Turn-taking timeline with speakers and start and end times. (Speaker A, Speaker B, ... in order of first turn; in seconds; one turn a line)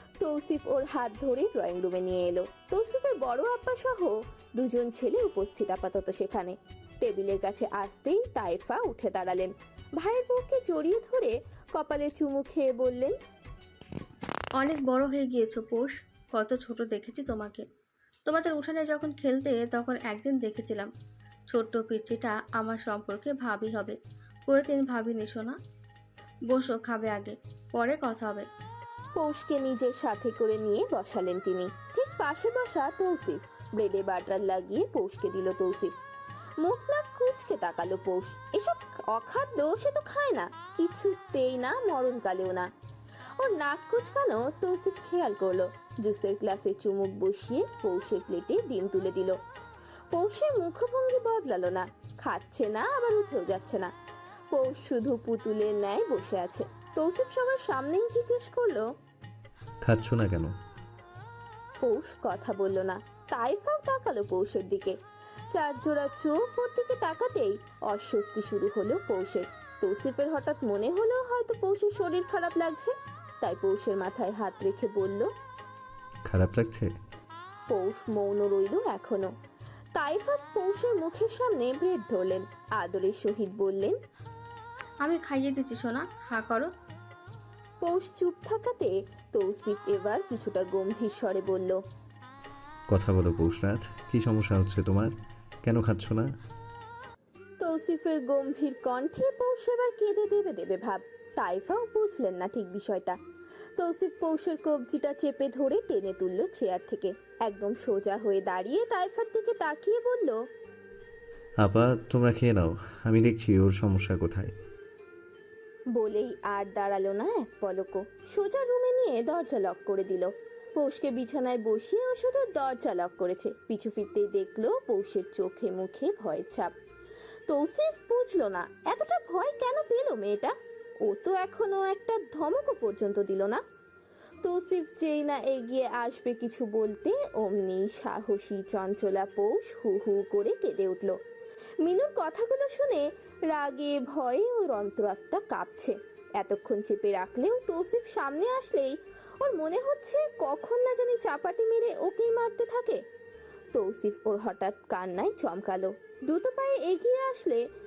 Speaker A: 0.2-13.1
Speaker B: 14.6-17.6
Speaker B: 18.2-20.9
Speaker B: 21.5-25.6
Speaker B: 26.5-28.5
Speaker A: 29.1-35.9
Speaker A: 36.6-42.7
Speaker A: 43.4-49.4
Speaker A: 50.1-53.9
Speaker A: 54.5-58.8
Speaker C: 59.8-60.5
Speaker A: 61.8-65.0
Speaker A: 65.5-75.3
Speaker C: 76.3-76.9
Speaker A: 77.7-79.3
Speaker A: 80.0-84.0
Speaker B: 85.0-86.7
Speaker A: 87.8-91.8
Speaker C: 92.9-95.1
Speaker C: 95.6-96.3
Speaker A: 97.6-103.2
Speaker A: 103.8-110.4
Speaker C: 111.6-114.5
Speaker A: 116.0-126.7
Speaker A: 127.5-130.5
Speaker A: 131.1-133.6
Speaker A: 134.4-141.1
Speaker A: 141.8-153.0
Speaker A: 153.7-157.6